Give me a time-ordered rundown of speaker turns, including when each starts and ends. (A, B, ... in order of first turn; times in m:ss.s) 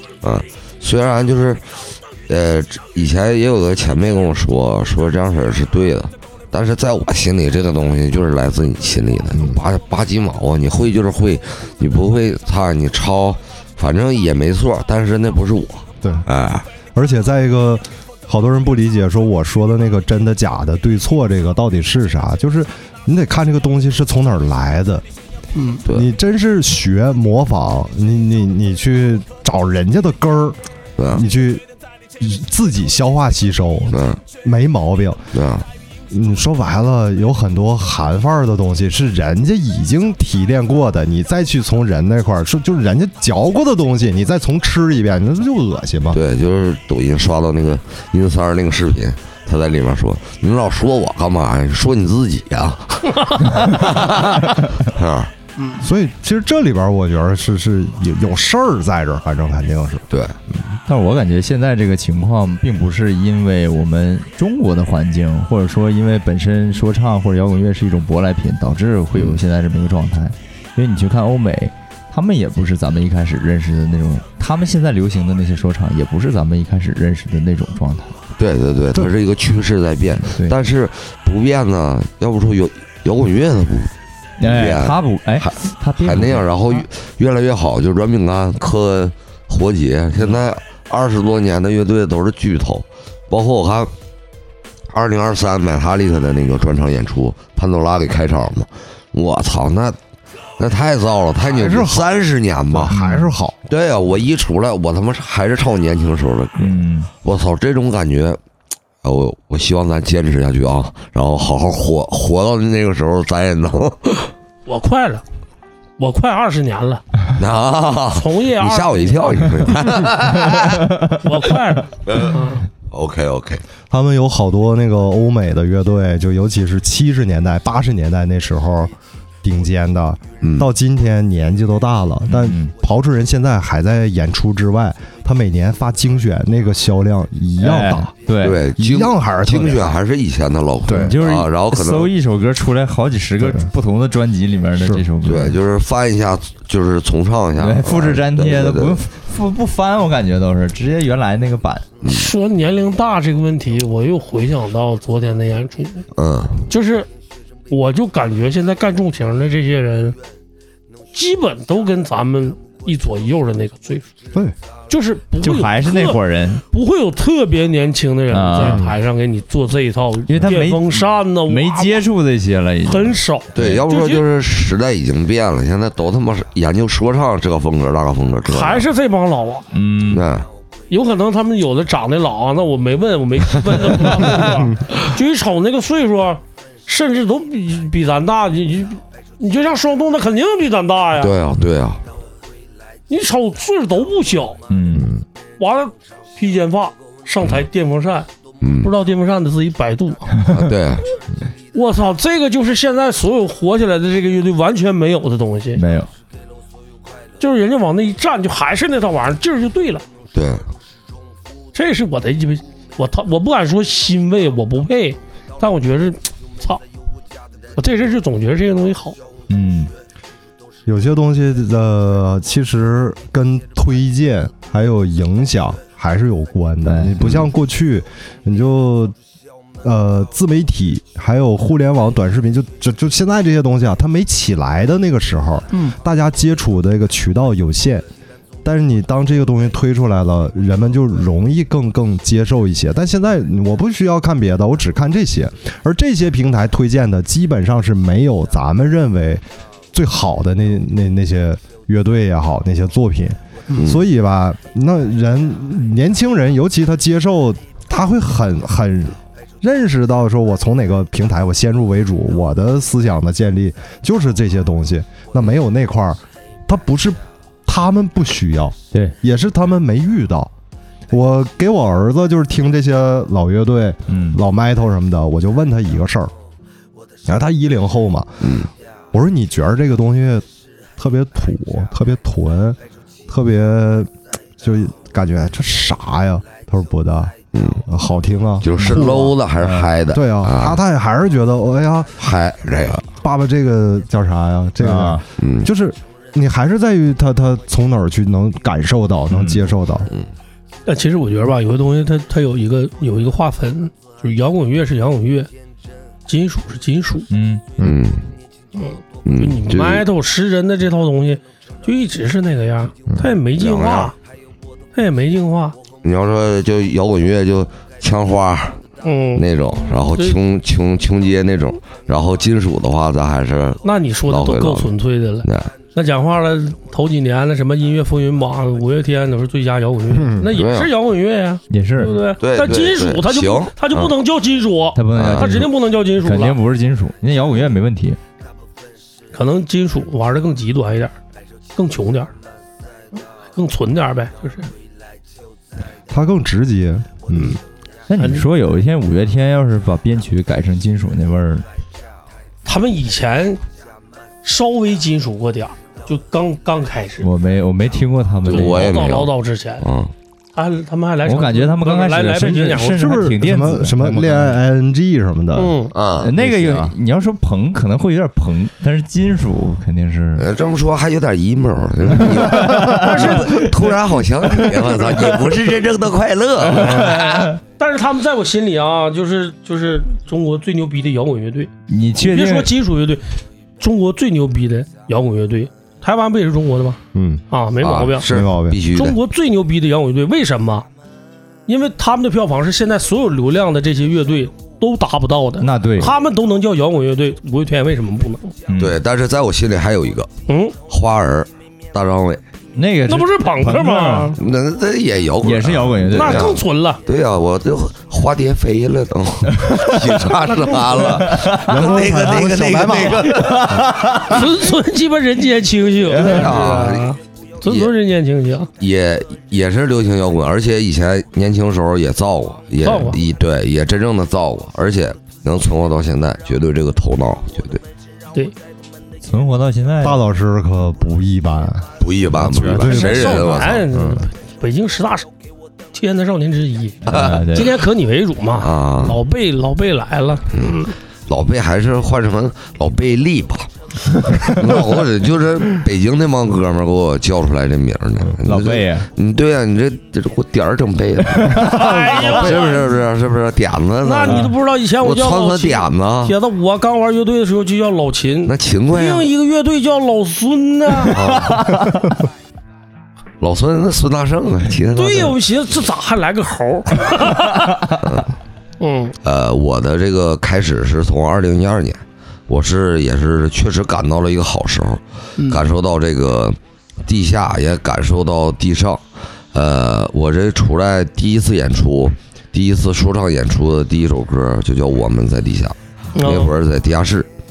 0:00.2-0:16.7 A
0:09.3-0:09.6 B
0:16.9-0:25.0 B
0:25.5-0:25.8 C
0:25.9-0:30.6 B
0:31.0-0:31.2 A
0:31.1-0:31.6 B
0:32.2-0:35.3 B
0:33.9-0:34.2 A
0:35.3-0:35.7 A
0:36.1-0:46.2 B
0:46.1-0:55.3 A
0:55.8-1:00.8 B
1:00.1-1:00.4 A
1:00.9-1:18.1 D
1:09.1-1:09.4 A
1:18.4-1:33.9 A
1:24.4-1:26.8 D
1:34.9-1:40.0 A
1:40.6-1:42.9 A
1:41.5-1:42.1 B
1:42.7-1:43.6 B
1:42.9-1:43.3 D
1:43.7-1:48.4 A
1:46.6-1:47.1 D
1:49.0-1:54.3 A
1:54.6-1:55.2 C
1:56.0-1:57.0 C
1:57.3-2:00.9 A
1:58.1-1:59.5 C
2:00.5-2:01.1 D
2:01.2-2:02.6 C
2:02.1-2:02.4 A
2:02.9-2:03.6 A
2:03.9-2:08.9 B
2:09.4-2:18.1 B
2:10.4-2:10.7 A
2:12.3-2:12.7 D
2:17.6-2:18.6 D
2:18.4-2:22.1 A
2:18.8-2:19.9 B
2:20.8-2:21.2 B
2:20.9-2:25.6 D
2:23.4-2:23.7 B
2:24.8-2:25.0 B
2:25.2-2:29.0 A
2:27.6-2:31.9 D
2:32.0-2:32.3 A
2:32.0-2:36.0 C
2:36.2-2:36.6 A
2:36.7-2:37.1 C
2:37.7-2:40.2 C
2:41.1-2:44.0 C
2:44.9-2:52.0 C
2:45.4-2:46.6 D
2:48.3-2:48.9 D
2:48.6-2:48.9 B
2:50.3-2:53.8 D
2:52.8-2:54.2 C
2:53.5-2:58.9 A
2:58.5-2:59.7 C
2:59.7-3:00.2 D
3:00.1-3:00.5 A
3:00.9-3:11.3 C
3:11.2-3:12.0 A
3:13.1-3:14.6 C
3:14.7-3:15.1 D
3:14.9-3:15.2 B
3:15.6-3:18.3 C
3:18.6-3:18.9 A
3:18.8-3:20.3 C
3:20.5-3:21.0 A
3:21.7-3:25.8 C
3:25.8-3:26.1 D
3:27.4-3:30.0 C
3:30.3-3:30.6 A
3:31.7-3:36.8 C
3:37.8-3:39.2 C
3:39.5-3:39.9 D
3:40.8-3:49.1 B
3:46.8-3:47.2 D
3:47.2-3:47.5 A
3:49.8-3:58.0 B
3:58.6-4:30.5 B
4:13.8-4:14.0 A
4:31.1-4:36.3 B
4:34.1-4:34.4 D
4:37.2-4:38.5 B
4:38.4-4:38.7 A
4:39.1-4:40.4 B
4:41.0-4:47.3 B
4:47.5-4:47.8 A
4:47.8-4:49.4 B
4:48.6-4:50.8 A
4:48.8-4:49.0 D
4:49.6-4:49.9 D
4:50.1-4:52.2 B
4:52.2-4:53.0 A
4:53.1-5:00.1 B
4:54.8-4:55.2 D
4:55.4-4:55.7 A
4:59.3-4:59.6 D
5:00.8-5:05.5 C
5:06.3-5:07.3 C
5:07.3-5:07.6 D
5:07.8-5:08.3 A
5:08.7-5:14.1 C
5:09.2-5:10.0 A
5:13.6-5:14.1 A
5:14.9-5:15.8 C
5:16.0-5:18.8 A
5:19.0-5:19.4 C
5:19.4-5:24.9 A
5:20.0-5:20.4 C
5:23.8-5:36.6 C
5:25.4-5:25.7 A
5:30.1-5:30.5 B
5:30.5-5:30.9 A
5:31.7-5:32.2 D
5:32.4-5:34.1 A
5:34.9-5:38.2 D
5:35.1-5:35.6 A
5:39.3-5:41.1 C
5:41.7-5:42.3 C
5:43.2-5:44.7 C
5:46.1-5:47.6 B
5:48.1-5:51.6 D
5:48.2-5:48.5 C
5:52.6-5:53.6 C
5:54.4-5:57.3 C
5:57.2-5:59.1 D
5:58.4-6:00.1 A
5:58.5-5:59.8 C
6:00.5-6:03.2 C
6:01.2-6:04.6 D
6:02.8-6:05.8 B
6:05.5-6:05.9 C
6:05.9-6:06.9 A
6:06.2-6:10.4 D
6:10.4-6:17.3 A
6:12.1-6:13.7 D
6:13.0-6:13.8 C
6:14.4-6:15.5 D
6:16.6-6:17.6 D
6:16.8-6:23.2 C
6:21.9-6:22.7 D
6:23.8-6:27.0 C
6:27.1-6:27.4 B
6:27.5-6:28.3 C
6:27.8-6:29.2 A
6:28.3-6:28.8 B
6:28.9-6:30.9 C
6:31.7-6:38.5 C
6:35.6-6:36.1 D
6:38.7-6:39.0 D
6:38.8-6:40.3 A
6:40.5-6:40.7 C
6:40.9-6:42.4 A
6:42.8-6:44.4 D
6:43.1-6:44.4 C
6:44.4-6:53.9 A
6:45.4-6:46.6 D
6:46.1-6:47.0 C
6:49.5-6:54.5 D
6:51.6-6:53.9 B
6:54.2-6:58.7 C
6:56.1-6:56.9 D
6:56.2-6:57.1 A
6:57.6-6:57.9 A
6:58.8-7:07.8 A
7:02.8-7:03.2 C
7:09.2-7:10.2 D
7:10.0-7:11.9 B
7:12.0-7:13.8 A
7:12.4-7:13.2 D
7:12.4-7:13.3 B
7:12.8-7:15.3 C
7:13.9-7:14.2 B
7:15.9-7:20.9 C
7:17.0-7:17.7 A
7:17.0-7:17.8 D
7:18.6-7:19.2 A
7:20.5-7:23.7 A
7:24.3-7:24.6 D
7:24.3-7:36.3 A
7:28.4-7:29.1 D
7:31.3-7:32.5 D
7:31.6-7:32.9 C
7:34.0-7:41.2 C
7:34.2-7:34.5 D
7:38.4-7:39.3 A
7:41.1-7:41.7 A
7:41.1-7:42.1 D
7:43.4-7:45.4 A
7:44.9-7:47.9 C
7:48.0-7:48.3 A
7:48.8-7:49.1 C
7:49.2-7:59.0 A
7:59.5-8:07.3 A
8:06.2-8:06.5 C